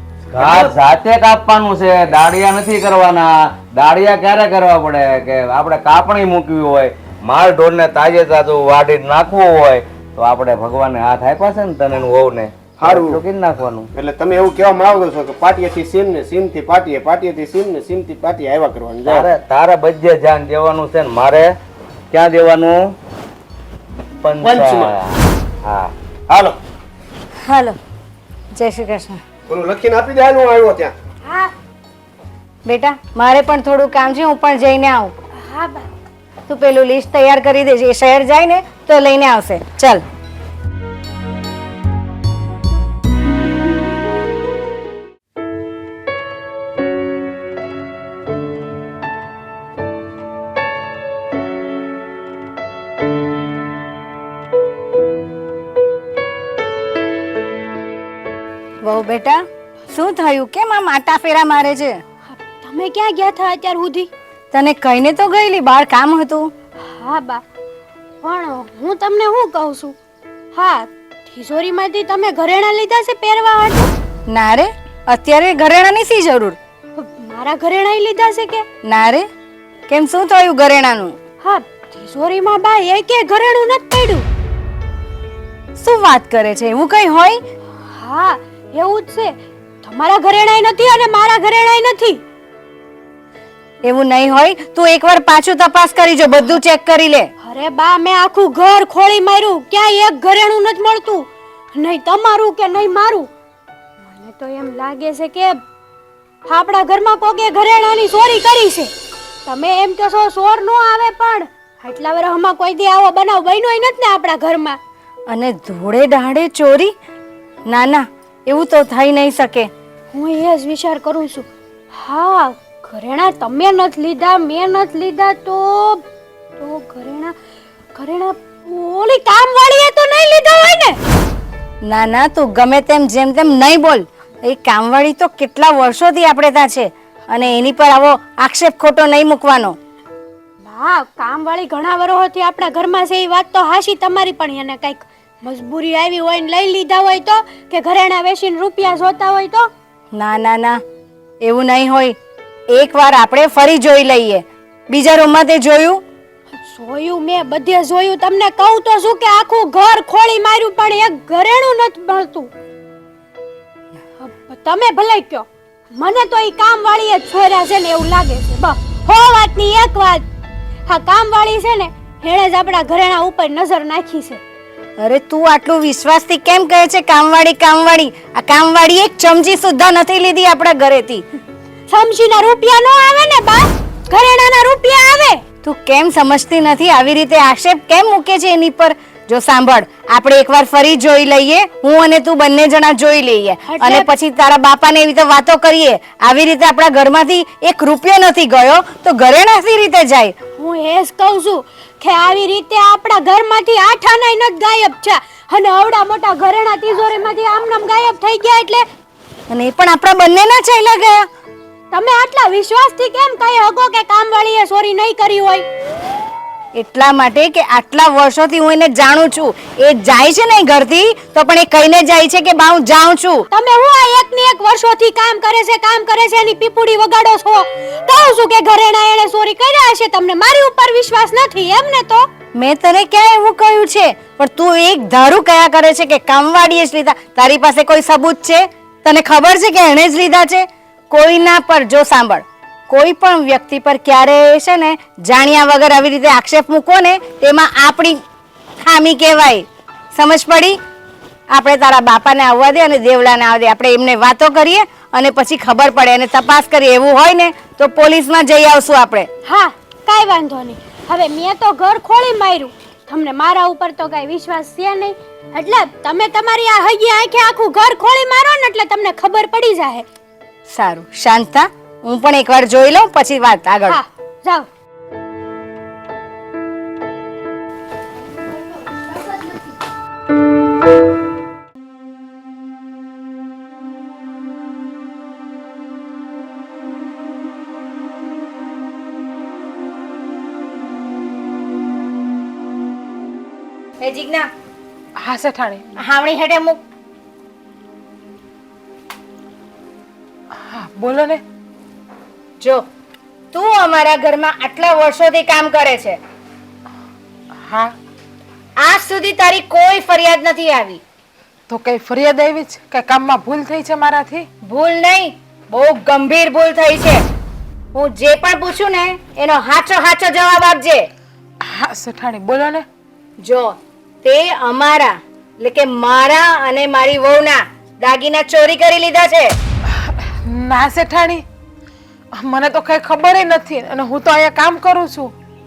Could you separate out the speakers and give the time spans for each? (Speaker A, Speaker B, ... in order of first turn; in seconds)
Speaker A: 0.3-13.9, 19.1-21.5, 22.1-22.9, 24.2-25.9
Speaker B: 0.4-0.8, 12.8-13.2, 14.0-19.3, 24.4-24.9, 26.3-26.6, 29.5-30.9
Speaker C: 27.5-27.8, 28.6-29.2, 32.7-35.1, 36.5-40.0, 58.8-62.0, 64.5-66.5, 74.3-76.6, 78.9-79.3, 79.9-81.2, 85.8-87.4, 93.9-97.3, 115.3-116.9, 117.7-119.7, 131.9-139.8, 150.1-150.8, 151.4-152.2, 152.7-156.0, 175.0-181.2, 185.6-200.3, 209.5-211.3, 216.8-223.5, 232.6-248.2, 248.8-249.7, 250.2-250.8, 251.5-259.3, 270.7-274.0, 294.0-294.5, 296.0-296.8, 303.5-306.2, 308.8-311.0, 314.7-317.2, 317.9-321.1, 323.4-329.6
Speaker D: 31.2-31.5, 35.4-35.9, 62.3-64.1, 66.8-67.4, 68.2-70.0, 70.5-73.9, 77.0-78.6, 81.4-84.2, 87.8-89.3, 89.8-92.2, 97.4-103.3, 104.0-105.6, 106.5-108.9, 109.5-114.8, 120.1-126.0, 126.6-127.3, 128.0-131.0, 140.6-149.7, 156.6-162.5, 164.2-170.2, 170.9-174.4, 181.9-185.4, 193.7-194.1, 200.6-208.8, 211.9-215.7, 223.5-232.3, 259.4-270.1, 273.9-274.7
Speaker E: 295.2-295.8, 300.7-301.4, 311.7-314.5, 321.6-322.9, 330.4-331.4, 332.4-335.3